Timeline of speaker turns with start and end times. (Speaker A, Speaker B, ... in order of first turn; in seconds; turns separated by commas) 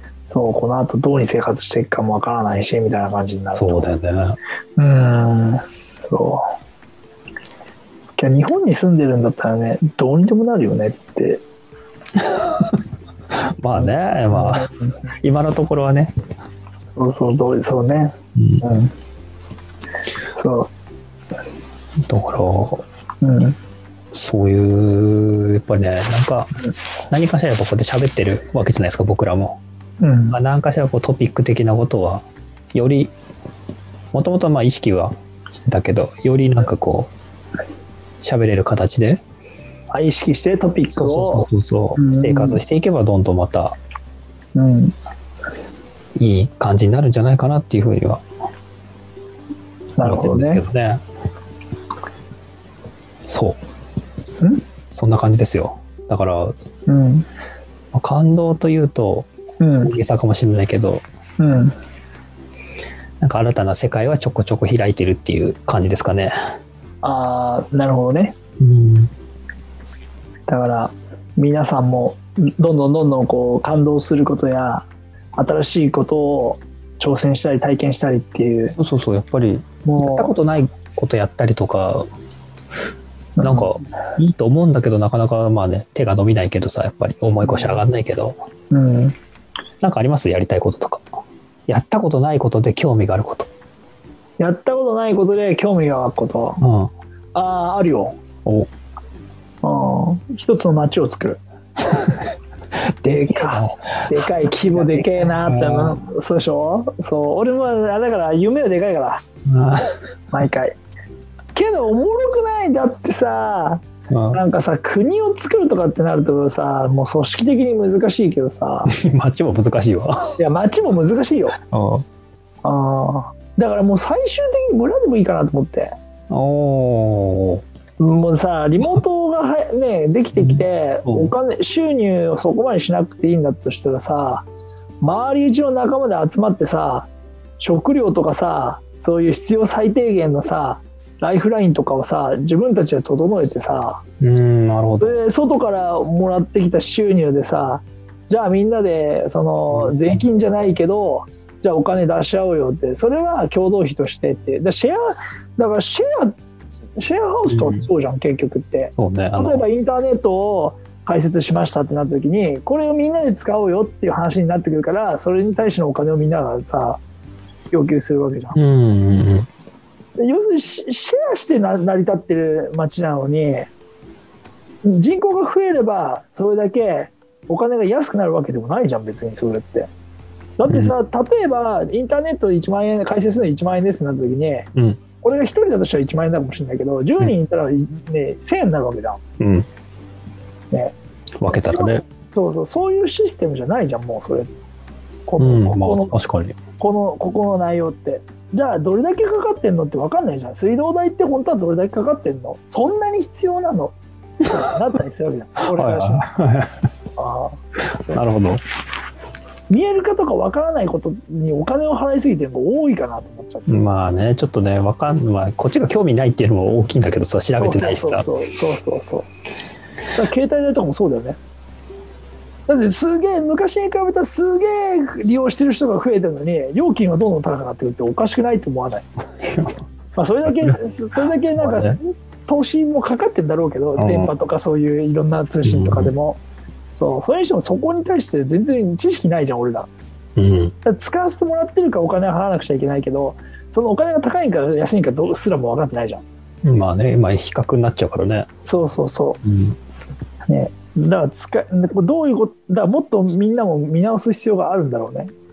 Speaker A: 0.2-3.8, Speaker B: 3.5-4.4, Speaker A: 4.8-6.4, Speaker A: 8.2-11.4, Speaker B: 13.6-14.7, Speaker A: 13.8-15.0, Speaker B: 15.2-16.1, Speaker A: 16.9-18.9, Speaker B: 18.4-18.6, Speaker A: 20.3-20.7, Speaker B: 22.1-22.8, Speaker A: 23.2-23.6, Speaker B: 24.1-26.5, Speaker B: 27.1-29.6, Speaker A: 30.0-30.4, Speaker B: 30.3-33.1, Speaker B: 34.1-37.1, Speaker B: 38.2-39.2, Speaker A: 39.9-42.6, Speaker B: 40.9-43.8, Speaker A: 44.5-44.9, Speaker B: 46.2-48.2, Speaker A: 50.0-50.6, Speaker B: 50.0-51.0, Speaker B: 53.3-53.6, Speaker B: 54.9-56.5, Speaker A: 56.9-57.2, Speaker B: 57.9-59.3, Speaker A: 59.6-59.9, Speaker B: 59.8-61.0, Speaker A: 61.4-61.7, Speaker B: 63.2-66.3, Speaker A: 67.0-68.3, Speaker B: 68.6-69.1, Speaker A: 70.5-74.8, Speaker A: 75.4-78.8, Speaker B: 78.8-82.0, Speaker A: 79.8-80.3, Speaker A: 83.4-83.7, Speaker B: 83.4-88.4, Speaker A: 87.4-87.8, Speaker A: 88.7-89.2, Speaker B: 89.8-91.0, Speaker B: 91.7-93.5, Speaker A: 94.4-96.6, Speaker B: 96.6-96.9, Speaker A: 97.3-98.1, Speaker A: 99.6-101.4, Speaker B: 103.0-106.0, Speaker A: 103.0-109.2, Speaker B: 109.5-109.9, Speaker A: 110.3-110.8, Speaker A: 111.5-118.9, Speaker B: 114.1-114.4, Speaker B: 118.9-120.4, Speaker A: 120.4-121.5, Speaker B: 121.7-122.0, Speaker A: 122.6-125.9, Speaker B: 126.3-127.6, Speaker A: 128.0-134.4, Speaker B: 130.3-131.3, Speaker A: 135.0-137.1, Speaker A: 137.6-144.0, Speaker B: 144.2-145.2, Speaker A: 145.0-156.4, Speaker B: 149.7-150.2, Speaker A: 157.0-167.0, Speaker B: 157.5-157.8, Speaker B: 159.0-159.6, Speaker A: 167.7-168.6, Speaker B: 168.5-169.5, Speaker A: 170.2-173.7, Speaker A: 174.8-179.9, Speaker A: 180.6-184.7, Speaker B: 180.7-180.9, Speaker B: 184.8-185.0, Speaker A: 185.2-189.2, Speaker B: 189.4-189.7, Speaker B: 191.4-192.0, Speaker A: 191.5-194.5, Speaker A: 195.2-196.2, Speaker B: 195.4-196.6, Speaker A: 196.8-206.3, Speaker B: 205.7-206.8, Speaker A: 207.2-207.6, Speaker B: 208.0-208.6, Speaker A: 209.7-213.8, Speaker B: 213.7-218.3, Speaker A: 217.5-219.3, Speaker A: 220.1-221.4, Speaker A: 222.7-229.1, Speaker B: 229.4-229.8, Speaker A: 230.2-236.4, Speaker B: 230.4-230.8, Speaker B: 231.6-232.0, Speaker B: 234.0-234.3, Speaker B: 235.6-236.1, Speaker A: 237.0-239.9, Speaker B: 240.4-240.7, Speaker A: 240.8-246.2, Speaker B: 246.6-248.5, Speaker A: 248.6-249.4, Speaker B: 249.4-249.8, Speaker A: 250.5-255.3